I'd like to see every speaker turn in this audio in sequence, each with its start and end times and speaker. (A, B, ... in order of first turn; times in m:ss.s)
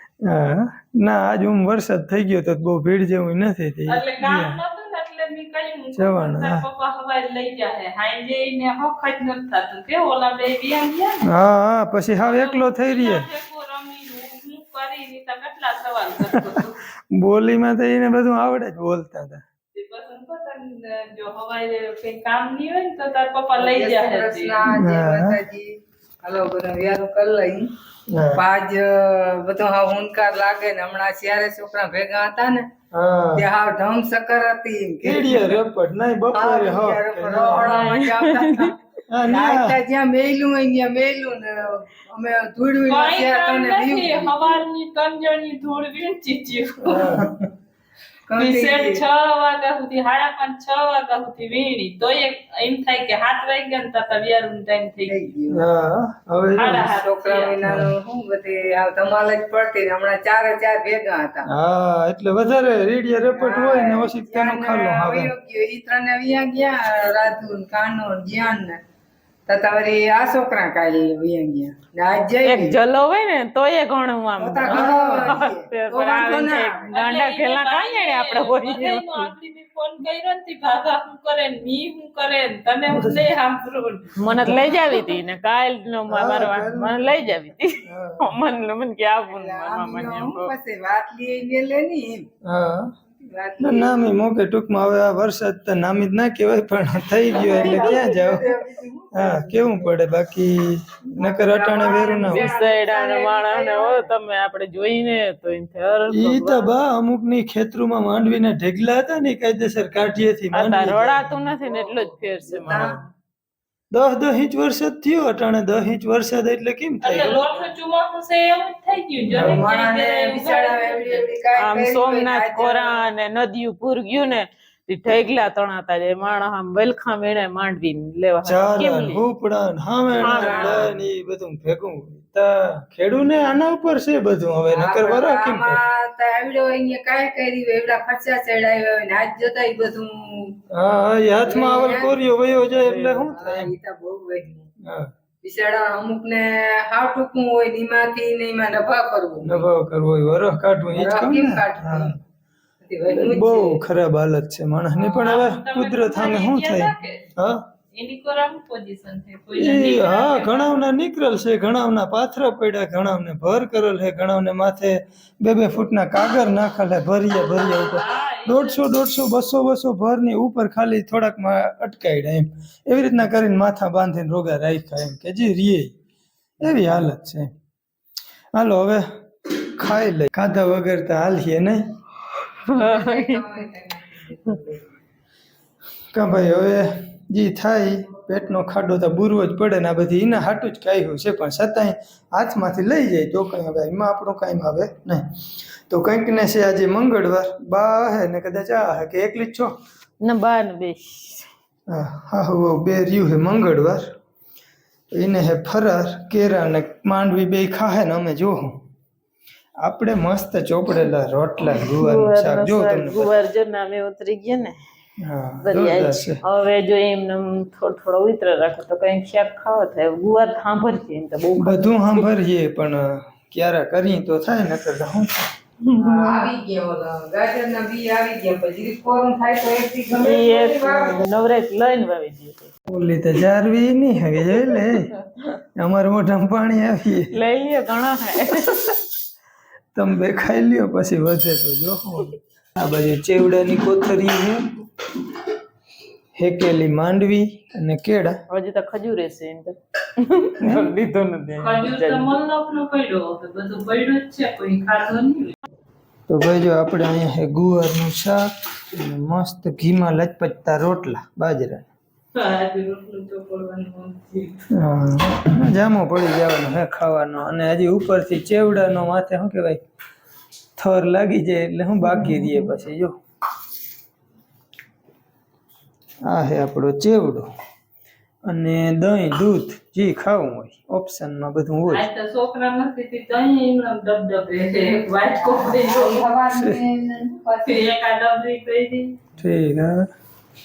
0:00.2-0:04.6 A
0:03.9-0:11.3 B
0:05.9-0:06.6 A
0:11.2-0:13.2 A
0:12.2-0:16.8 B
0:16.3-0:16.6 A
0:17.1-0:19.4 A
0:19.7-0:24.7 B
0:23.6-0:27.7 C
0:24.7-0:25.4 A
0:28.1-0:28.4 A
0:28.3-0:32.7 C
0:32.9-0:33.4 A
0:33.3-0:35.6 C
0:35.0-0:37.9 A
0:36.3-0:44.6 C
0:37.7-0:38.7 D
0:39.1-0:39.8 A
0:42.9-0:47.3 B
0:46.8-0:47.4 A
0:48.3-0:49.0 C
0:48.4-0:55.3 B
0:55.1-0:55.6 C
0:55.5-0:56.9 A
0:56.6-0:57.6 B
0:56.8-1:01.4 C
0:57.6-0:57.9 A
1:01.4-1:05.3 A
1:03.3-1:08.8 C
1:09.5-1:12.8 C
1:12.4-1:19.3 D
1:14.4-1:16.9 C
1:14.6-1:15.3 A
1:16.9-1:24.6 B
1:22.9-1:23.3 A
1:24.2-1:30.5 D
1:26.1-1:27.0 A
1:27.8-1:28.3 A
1:29.3-1:32.3 C
1:32.4-1:32.9 A
1:33.2-1:34.2 C
1:33.6-1:38.6 A
1:37.3-1:39.6 C
1:39.1-1:42.5 A
1:41.1-1:44.1 C
1:42.0-1:46.7 D
1:46.1-1:51.3 A
1:50.5-1:53.0 D
1:51.6-1:53.0 C
1:52.6-1:53.0 A
1:53.9-1:57.4 A
1:57.0-2:01.3 B
1:59.3-1:59.7 A
1:59.3-2:03.0 C
2:01.6-2:09.2 D
2:08.4-2:15.8 A
2:10.2-2:10.9 C
2:10.2-2:10.9 D
2:14.7-2:20.6 C
2:20.7-2:23.7 A
2:21.4-2:22.2 C
2:22.7-2:24.7 C
2:24.8-2:25.1 A
2:25.4-2:29.7 C
2:29.4-2:32.2 A
2:30.9-2:32.2 C
2:32.8-2:33.8 C
2:33.1-2:37.7 A
2:35.1-2:37.2 B
2:37.9-2:40.8 B
2:39.6-2:55.9 A
2:47.6-2:48.9 B
2:56.6-2:57.5 A
2:58.6-3:02.0 A
3:02.7-3:03.4 D
3:02.7-3:04.8 C
3:06.1-3:15.3 A
3:15.9-3:19.7 A
3:20.2-3:21.5 D
3:21.9-3:24.1 A
3:25.1-3:28.8 A
3:29.8-3:33.3 A
3:31.6-3:34.8 D
3:35.2-3:36.4 A
3:35.6-3:42.2 D
3:41.6-3:45.4 A
3:45.8-3:46.5 D
3:45.9-3:51.3 C
3:50.2-3:52.7 D
3:52.9-3:55.1 A
3:54.6-3:54.9 D
3:55.8-3:57.3 A
3:57.3-3:59.0 D
3:59.9-4:04.7 A
4:06.4-4:08.4 A
4:08.5-4:12.4 D
4:10.6-4:10.9 A
4:11.6-4:15.6 B
4:16.3-4:21.9 A
4:22.3-4:24.6 B
4:24.7-4:29.8 A
4:30.8-4:33.2 A
4:32.1-4:32.7 D
4:36.2-4:37.5 A
4:38.4-4:42.0 A
4:41.9-4:46.3 B
4:45.4-4:47.9 C
4:46.5-4:46.8 A
4:47.6-4:49.2 B
4:49.4-4:50.1 A